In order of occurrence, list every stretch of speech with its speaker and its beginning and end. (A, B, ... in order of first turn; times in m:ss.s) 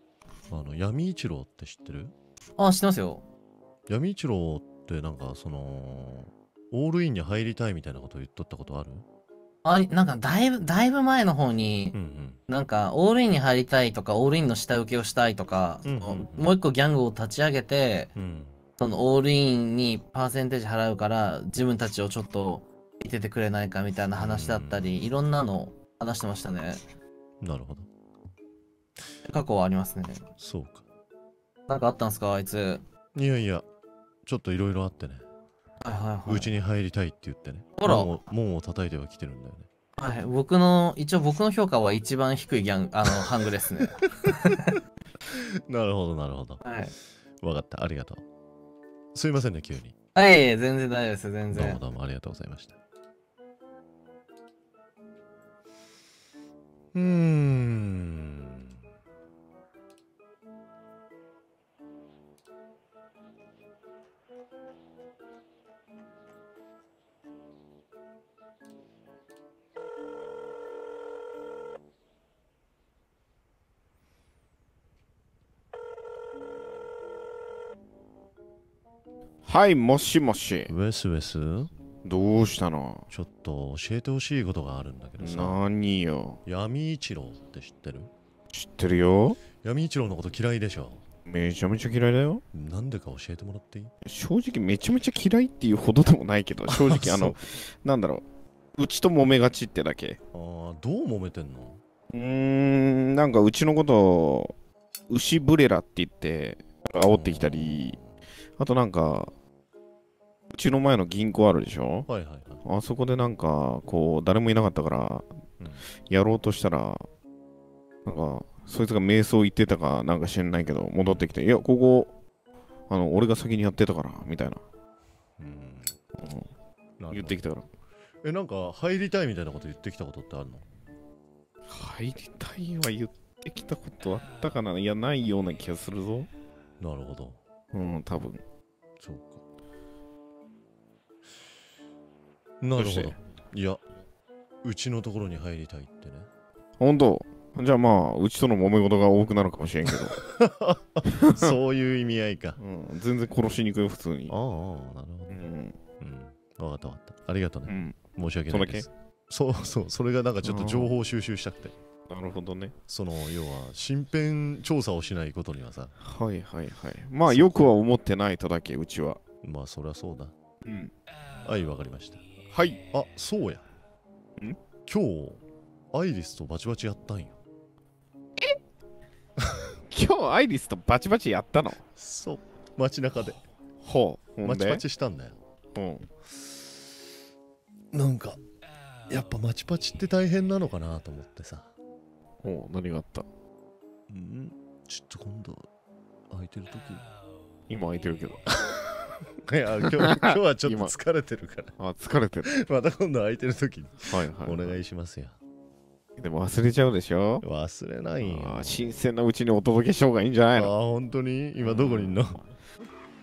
0:00.5-0:02.1 A
0:02.6-0:03.2 B
0:03.9-0:09.0 A
0:09.6-0:12.0 B
0:11.9-0:12.4 A
0:12.5-0:18.1 B
0:15.8-0:16.5 A
0:18.1-0:18.6 A
0:18.8-0:26.8 B
0:24.2-0:24.9 A
0:27.4-0:27.9 A
0:29.2-0:30.3 B
0:30.4-0:30.8 A
0:31.7-0:32.8 B
0:33.1-0:33.6 A
0:34.2-0:35.2 A
0:35.8-0:36.5 B
0:36.2-0:39.7 A
0:37.8-0:38.2 B
0:40.0-0:44.7 B
0:45.3-0:46.6 A
0:46.6-0:46.9 B
0:47.4-0:48.2 A
0:49.1-0:49.9 A
0:50.1-0:51.8 B
0:51.5-0:52.8 A
0:56.9-0:58.8 A
1:19.4-1:20.7 C
1:20.7-1:21.7 A
1:22.0-1:23.1 C
1:23.1-1:25.6 A
1:25.2-1:26.4 C
1:26.4-1:28.1 A
1:28.5-1:29.4 C
1:29.6-1:31.0 A
1:31.2-1:32.4 C
1:32.5-1:33.9 A
1:34.0-1:38.2 C
1:36.7-1:37.4 A
1:38.8-1:40.2 C
1:40.3-1:41.8 A
1:42.1-1:44.5 C
1:45.1-1:48.0 C
1:47.0-1:48.2 A
1:48.6-1:49.3 C
1:50.5-1:52.1 C
1:52.1-1:52.6 A
1:52.6-1:55.4 C
1:55.6-1:55.8 A
1:56.1-1:57.0 C
1:58.0-2:02.1 C
2:01.0-2:01.3 A
2:02.9-2:04.6 C
2:05.4-2:06.0 A
2:06.2-2:06.5 C
2:07.0-2:07.4 A
2:07.1-2:07.7 C
2:08.2-2:10.7 A
2:11.7-2:16.3 C
2:16.8-2:17.4 A
2:17.7-2:18.4 C
2:19.0-2:19.4 A
2:22.6-2:23.8 A
2:22.8-2:23.2 C
2:24.6-2:26.3 A
2:26.8-2:30.2 C
2:29.9-2:32.6 A
2:31.1-2:31.5 C
2:32.6-2:34.4 C
2:34.3-2:35.4 A
2:35.3-2:35.8 C
2:36.0-2:41.7 A
2:37.6-2:38.9 C
2:40.4-2:40.9 C
2:42.1-2:42.7 C
2:42.9-2:45.9 A
2:46.0-2:49.2 C
2:47.3-2:47.7 A
2:49.4-2:50.3 A
2:50.6-2:50.9 C
2:51.4-2:52.2 A
2:52.5-2:52.8 C
2:52.9-2:53.7 A
2:54.9-2:57.4 A
2:59.9-3:01.8 C
3:02.0-3:03.4 A
3:03.8-3:04.8 C
3:04.4-3:05.4 A
3:05.7-3:06.1 C
3:06.3-3:06.8 A
3:07.9-3:08.4 A
3:09.1-3:11.7 A
3:12.4-3:13.2 C
3:14.1-3:15.7 A
3:16.3-3:17.0 A
3:17.7-3:18.4 C
3:19.4-3:21.7 A
3:19.9-3:20.9 C
3:21.8-3:22.5 C
3:22.4-3:25.4 A
3:24.0-3:24.7 C
3:26.2-3:27.4 C
3:27.4-3:28.7 A
3:28.2-3:30.7 C
3:30.5-3:32.4 A
3:31.6-3:32.5 C